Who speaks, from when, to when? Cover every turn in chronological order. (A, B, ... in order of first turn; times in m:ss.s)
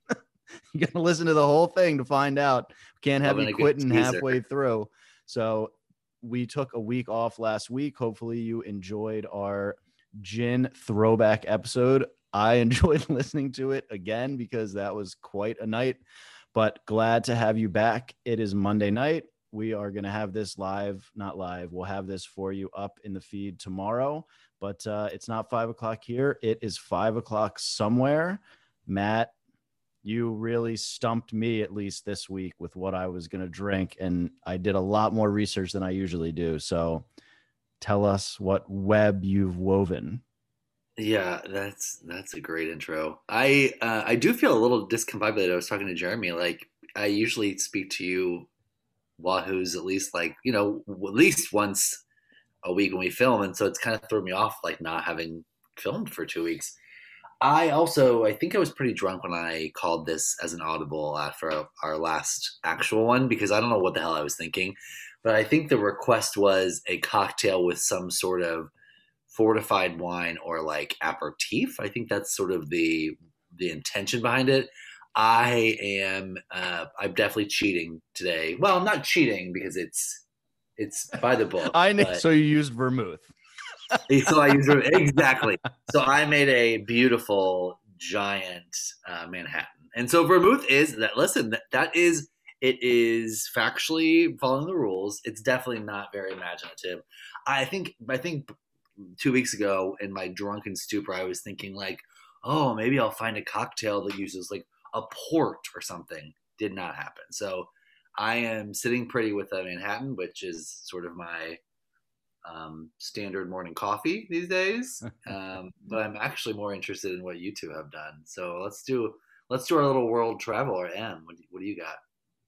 0:00.7-0:16.0 A
0:03.2-0:04.4 B
0:16.5-0:29.3 A
0:30.0-0:37.0 A
0:37.8-0:40.2 A
0:41.0-0:48.5 B
0:49.2-0:52.0 B
0:52.6-0:56.8 B
0:57.4-1:08.7 B
1:09.3-1:20.2 B
1:20.8-1:22.2 B
1:21.6-1:23.3 A
1:24.1-1:38.5 B
1:39.0-1:51.6 B
1:52.4-2:02.0 B